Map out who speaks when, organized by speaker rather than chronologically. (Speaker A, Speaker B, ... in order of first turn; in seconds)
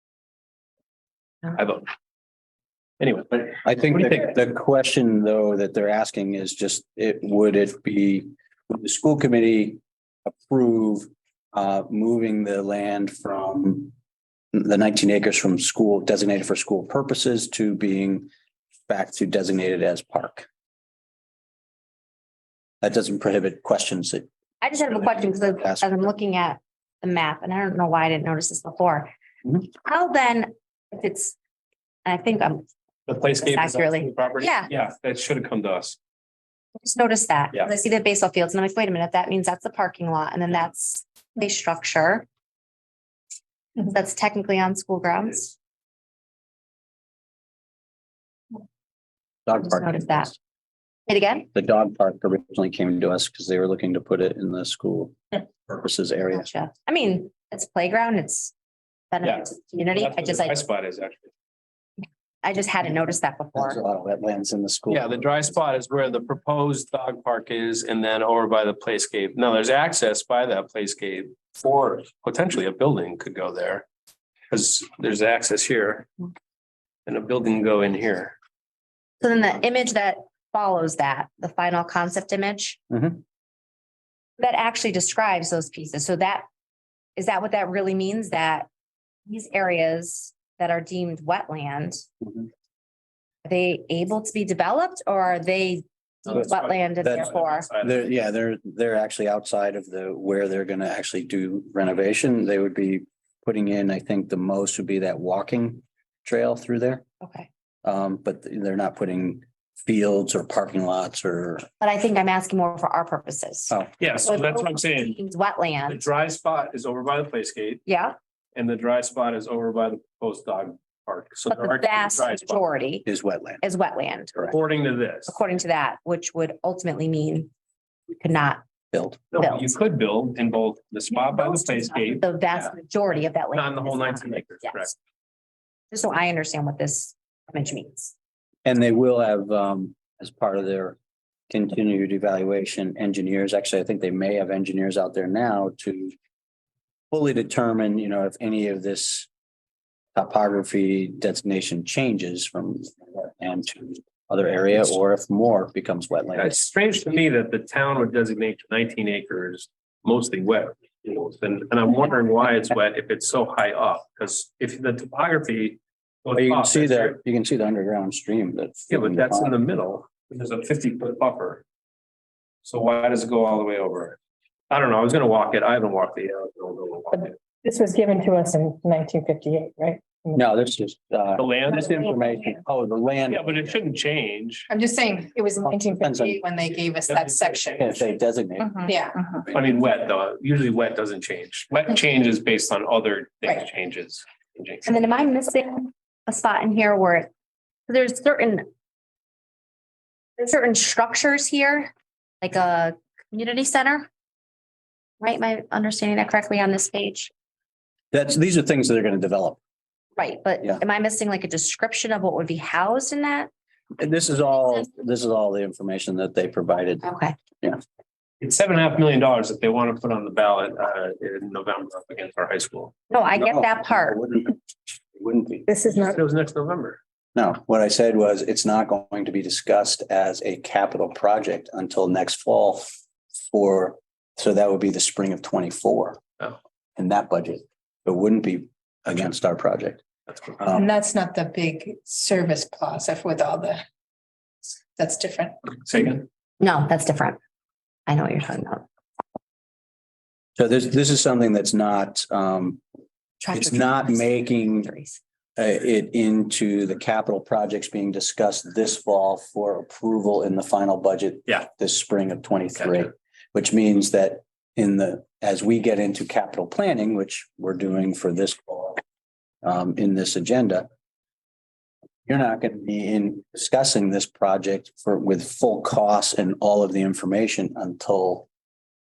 Speaker A: 1.5-1.9, 3.0-4.3, 33.1-36.0, 59.2-61.3, 64.9-73.9, 74.5-76.1, 77.0-78.3, 96.2-98.1, 114.0-115.2, 115.9-117.8, 118.5-122.6, 124.5-125.4, 129.3-132.2, 133.5-134.9, 156.4-167.2, 168.9-171.6, 172.6-174.2, 174.7-177.4, 181.4-182.0, 183.3-184.7, 187.1-188.0, 189.5-194.9, 218.4-222.9, 226.1-227.0, 245.8-246.3, 262.8-263.1
Speaker B: 3.6-13.9, 14.5-18.3, 18.9-20.5, 22.8-24.2, 24.9-26.1, 49.5-50.4, 51.5-56.5, 63.5-65.5, 82.9-83.2, 97.0-107.0, 107.8-111.7, 123.0-123.6, 128.9-129.3, 138.6-141.0, 141.5-146.1, 147.1-149.3, 150.1-156.6, 166.4-169.5, 180.3-183.8, 185.6-186.4, 187.8-188.9, 208.1-209.6, 214.0-217.1, 223.4-225.7, 227.3-232.9, 233.5-236.2, 237.0-240.0, 240.6-240.9, 250.6-252.8, 253.5-254.9, 255.6-269.0, 269.6-270.9, 272.3-278.5
Speaker C: 24.6-29.1, 29.6-31.4, 32.0-32.7, 33.4-34.7, 36.8-42.3, 43.8-45.5, 49.6-50.3, 51.1-51.5, 56.3-58.5, 59.1-60.6, 62.4-63.8, 79.2-82.8, 84.4-86.4, 87.2-88.7, 89.3-92.0, 93.4-97.7, 107.2-107.5, 111.8-116.0, 117.8-118.2, 121.5-123.0, 123.6-124.5, 125.3-127.5, 128.2-128.6, 129.4-129.7, 131.3-134.9, 135.9-138.1, 194.8-197.3, 197.9-198.7, 200.4-204.1, 205.2-207.3, 210.2-213.5, 217.0-217.3, 223.1-224.2, 246.6-247.4, 248.1-248.8, 253.4-255.2
Speaker D: 177.1-180.4, 184.7-188.0, 188.6-189.4, 225.7-226.2, 240.7-243.8, 244.9-245.6